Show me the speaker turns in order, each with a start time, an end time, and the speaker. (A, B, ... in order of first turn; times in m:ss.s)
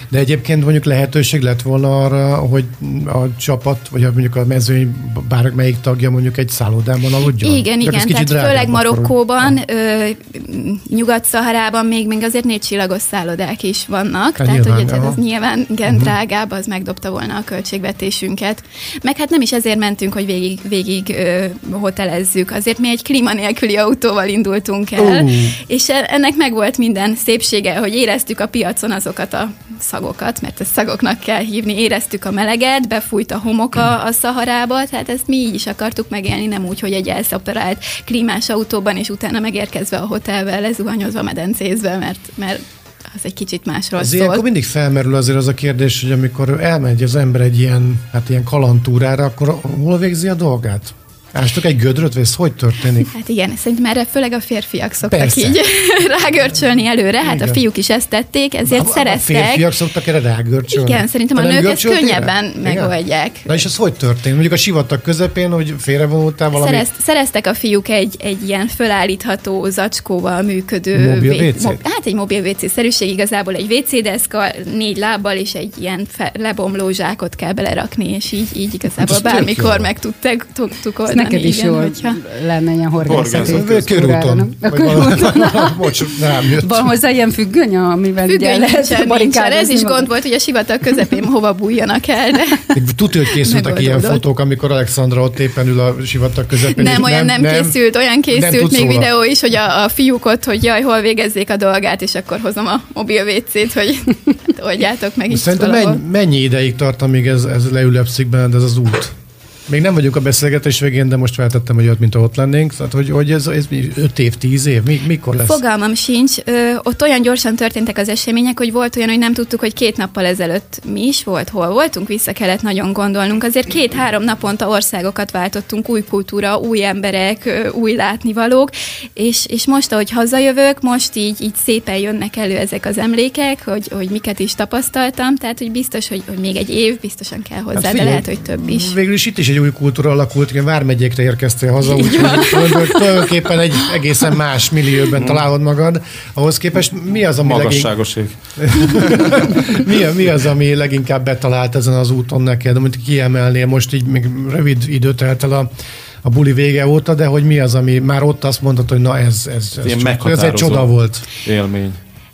0:00.1-0:09.5 A
0:07.4-0:44.4 B
0:14.4-0:15.2 A
0:15.9-0:16.1 A
0:25.0-0:25.6 A
0:44.0-0:53.1 A
0:53.1-0:59.7 B
0:55.0-0:55.6 A
0:57.2-0:57.6 A
0:58.7-1:02.9 A
1:00.7-1:03.5 B
1:03.4-1:06.8 A
1:06.5-1:22.2 B
1:10.9-1:11.8 A
1:19.0-1:19.9 A
1:21.1-1:25.9 C
1:23.0-1:23.9 D
1:23.2-1:26.9 A
1:26.6-1:30.1 C
1:28.2-1:32.6 B
1:32.7-1:37.8 A
1:33.3-1:34.2 B
1:36.7-1:46.0 B
1:38.3-1:39.1 A
1:45.3-1:49.2 A
1:49.7-1:55.6 A
1:55.3-2:18.9 B
2:17.7-2:35.7 A
2:21.8-2:23.3 B
2:25.2-2:25.4 D
2:27.4-2:29.7 D
2:36.2-2:41.2 A
2:39.8-2:42.0 D